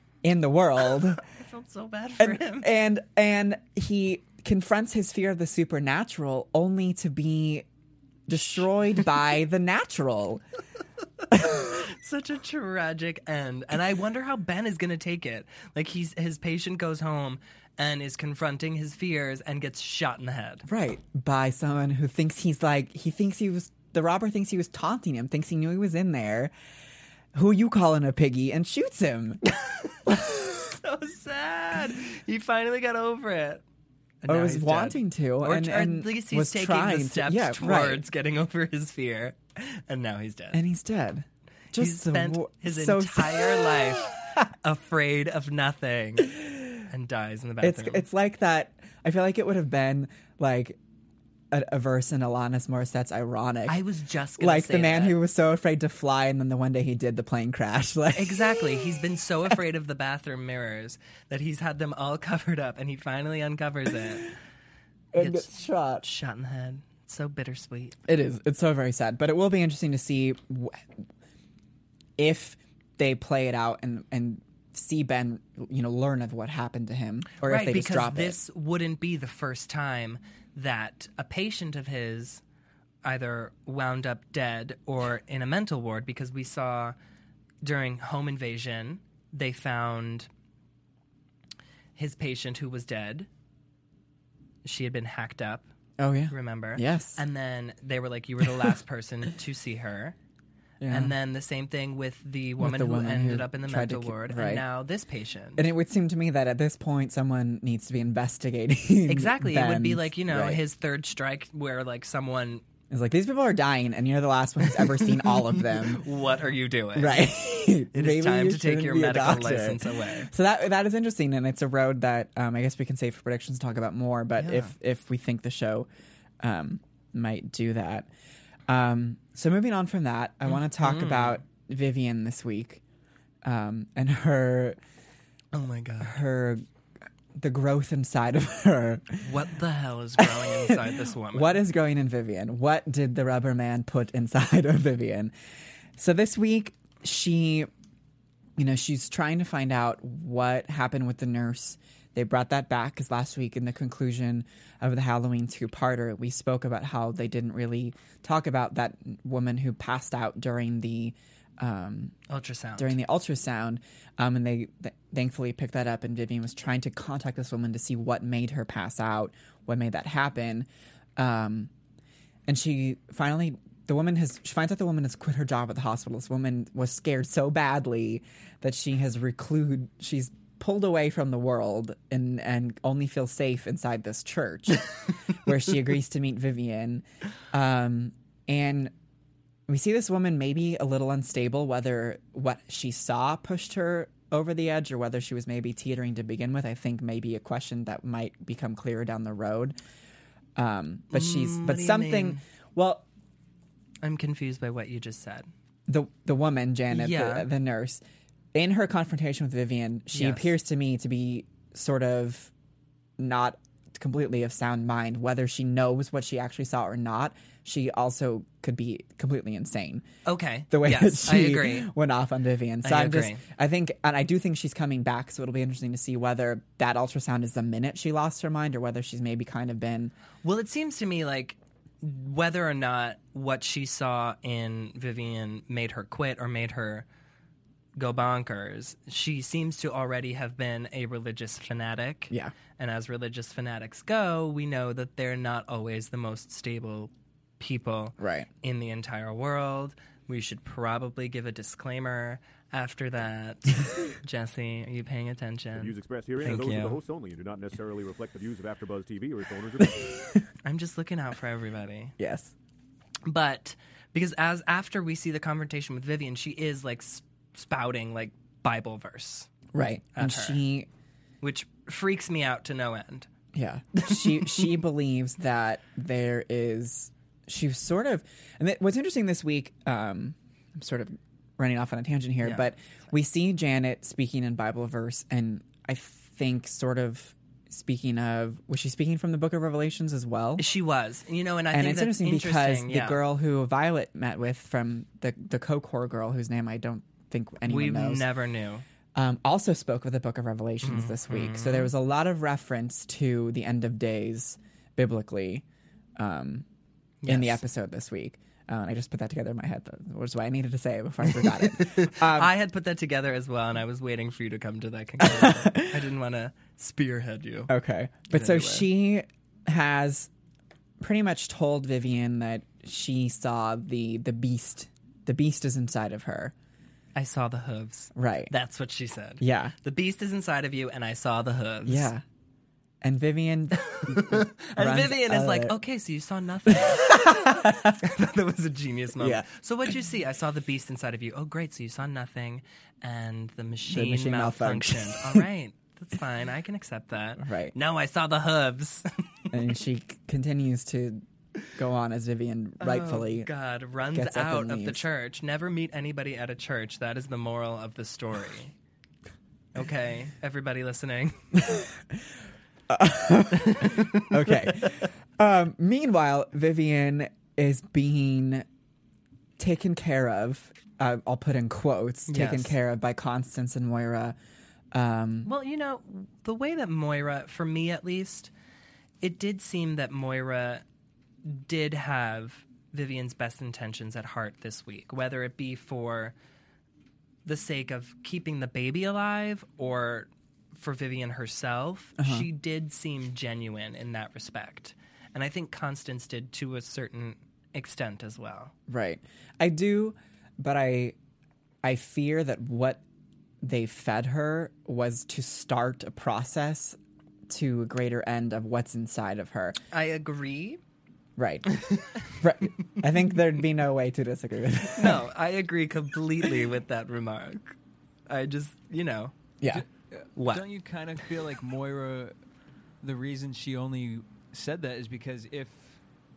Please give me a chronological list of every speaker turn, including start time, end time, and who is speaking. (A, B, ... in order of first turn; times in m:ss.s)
0:00.2-0:01.2 A
0:01.2-0:02.7 B
0:02.2-0:07.7 A
0:08.3-0:10.4 A
0:08.3-0:08.6 B
0:11.4-0:20.6 B
0:20.7-0:26.5 A
0:27.3-0:29.4 A
0:30.6-0:33.6 B
0:34.2-0:40.6 B
0:34.3-0:38.0 A
0:40.5-0:44.4 A
0:41.8-0:48.1 B
0:46.3-0:46.8 A
0:47.6-0:50.8 A
0:51.5-0:53.8 A
0:53.7-0:55.2 B
0:54.4-0:58.8 A
0:58.2-1:04.3 B
1:05.1-1:06.1 A
1:05.2-1:08.0 B
1:08.1-1:10.8 A
1:12.2-1:18.4 A
1:17.4-1:22.4 B
1:23.0-1:27.0 B
1:27.6-1:30.3 B
1:32.0-1:33.3 B
1:34.6-1:35.7 B
1:36.0-1:37.2 A
1:36.3-1:40.2 B
1:40.8-1:41.1 A
1:40.9-1:45.7 B
1:42.6-1:44.6 A
1:45.6-1:50.6 A
1:49.1-1:52.6 B
1:52.9-1:56.0 A
1:55.0-1:57.4 B
1:57.0-2:05.9 A
1:57.9-2:00.3 B
2:04.4-2:04.7 B
2:06.4-2:08.1 A
2:08.7-2:12.8 A
2:10.5-2:11.4 B
2:13.4-2:14.8 A
2:15.5-2:16.2 B
2:16.0-2:16.6 A
2:17.4-2:19.2 A
2:19.2-2:21.6 B
2:20.2-2:25.3 A
2:26.0-2:27.7 A
2:28.6-2:42.2 A
2:42.3-2:43.0 B
2:42.8-2:51.7 A
2:52.5-3:08.9 A
3:09.7-3:19.8 A
3:20.6-3:23.1 A
3:21.1-3:22.4 B
3:24.0-3:25.5 B
3:25.9-3:28.0 A
3:26.9-3:27.5 B
3:28.5-3:32.5 A
3:30.1-3:30.5 B
3:33.2-3:40.0 A
3:40.2-3:41.9 B
3:40.7-3:50.1 A
3:42.8-3:43.4 B
3:50.4-3:57.1 B
3:58.0-4:17.0 B
4:08.2-4:08.5 A
4:15.7-4:20.2 C
4:19.8-4:20.3 A
4:20.6-4:22.2 B
4:22.2-4:22.5 A
4:23.3-4:29.5 B
4:29.7-4:30.9 A
4:30.2-4:30.6 B
4:31.4-4:33.3 B
4:33.5-4:50.7 A
4:34.0-4:34.7 B
4:50.6-4:53.2 B
4:51.7-4:58.3 A
4:57.7-4:58.8 B
4:59.2-5:05.6 A
5:00.8-5:01.9 B
5:06.2-5:06.7 A
5:07.2-5:07.6 B
5:07.3-5:12.5 A
5:11.3-5:17.7 B
5:15.2-5:16.0 A
5:17.7-5:20.3 A
5:18.3-5:18.9 B
5:21.0-5:26.5 A
5:27.2-5:32.1 B
5:28.2-5:28.5 A
5:29.4-5:29.8 A
5:31.9-5:32.2 A
5:33.0-5:35.8 A
5:33.8-5:49.1 B
5:36.7-5:38.0 A
5:39.2-5:39.5 A
5:43.9-5:45.5 A
5:47.4-5:47.8 A
5:49.5-5:51.2 A
5:51.8-5:53.5 A
5:52.8-5:58.7 B
5:54.1-5:55.0 A
5:59.8-6:01.8 B
6:01.6-6:01.9 A
6:02.9-6:08.6 A
6:03.6-6:04.3 B
6:09.6-6:14.4 A
6:12.3-6:12.7 B
6:14.9-6:15.5 A
6:15.4-6:18.5 B
6:19.2-6:20.8 B
6:21.4-6:26.4 B
6:27.4-6:38.7 B
6:32.2-6:32.5 A
6:38.9-6:41.2 A
6:41.8-6:43.0 A
6:43.6-6:49.8 A
6:49.9-6:50.8 B
6:51.4-6:55.2 A
6:51.8-6:52.1 B
6:55.0-6:57.8 B
6:58.3-6:59.4 B
6:59.7-7:02.4 D
7:00.4-7:00.6 B
7:03.0-7:06.0 D